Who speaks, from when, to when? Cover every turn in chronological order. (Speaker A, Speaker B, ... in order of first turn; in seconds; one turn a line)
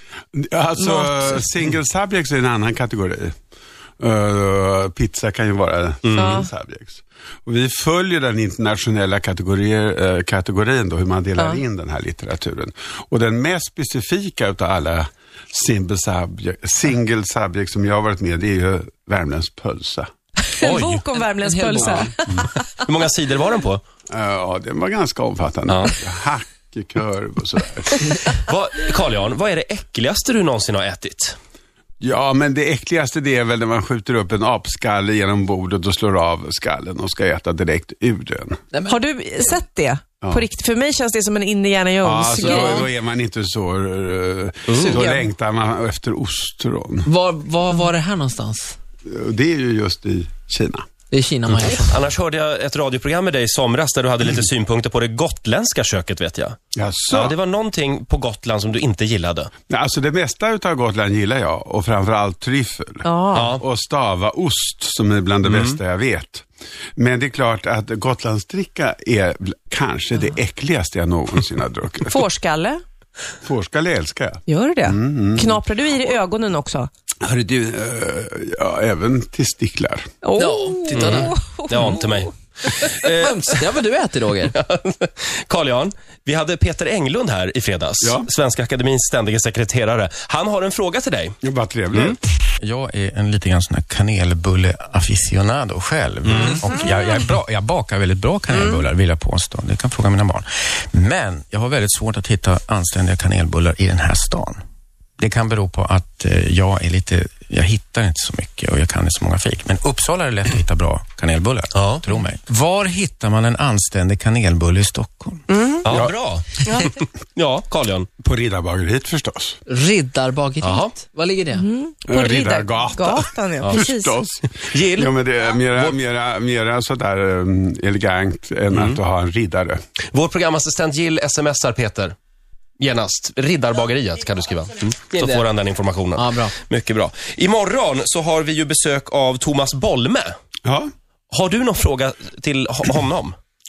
Speaker A: 0.3-3.3
Speaker B: 0.8-1.4
Speaker A: 4.0-20.1
Speaker C: 6.0-6.4
Speaker B: 6.1-6.5
Speaker B: 20.5-22.5
Speaker C: 20.6-21.0
Speaker D: 20.7-22.1
Speaker C: 22.3-23.8
Speaker A: 24.1-28.1
Speaker C: 25.7-26.0
Speaker C: 28.5-31.4
Speaker A: 32.0-38.6
Speaker D: 38.7-39.0
Speaker B: 38.9-42.9
Speaker A: 42.0-47.1
Speaker D: 42.4-42.9
Speaker C: 44.7-45.0
Speaker B: 44.8-45.3
Speaker D: 47.0-48.8
Speaker A: 49.1-50.9
Speaker D: 51.1-52.0
Speaker C: 51.6-56.6
Speaker A: 56.8-57.4
Speaker C: 57.1-59.5
Speaker A: 59.7-66.5
Speaker B: 63.0-63.6
Speaker C: 63.3-63.6
Speaker C: 65.5-65.8
Speaker A: 67.0-72.2
Speaker B: 72.1-72.8
Speaker A: 73.4-75.6
Speaker B: 74.5-76.9
Speaker A: 77.2-80.1
Speaker B: 80.2-82.3
Speaker D: 80.4-82.0
Speaker C: 80.9-83.6
Speaker D: 82.9-84.6
Speaker C: 84.4-91.3
Speaker A: 88.0-88.3
Speaker A: 91.4-92.2
Speaker E: 92.6-104.6
Speaker C: 96.2-96.6
Speaker E: 105.2-115.4
Speaker C: 111.7-112.0
Speaker B: 115.5-115.8
Speaker C: 115.8-118.1
Speaker A: 115.9-116.2
Speaker B: 116.6-116.9
Speaker A: 118.2-119.6
Speaker D: 119.7-121.7
Speaker C: 120.6-120.9
Speaker B: 121.6-124.2
Speaker A: 122.1-129.8
Speaker C: 124.7-126.0
Speaker C: 128.7-129.0
Speaker C: 130.1-132.2
Speaker C: 132.8-140.3
Speaker D: 135.1-135.5
Speaker D: 136.2-136.6
Speaker C: 141.3-143.3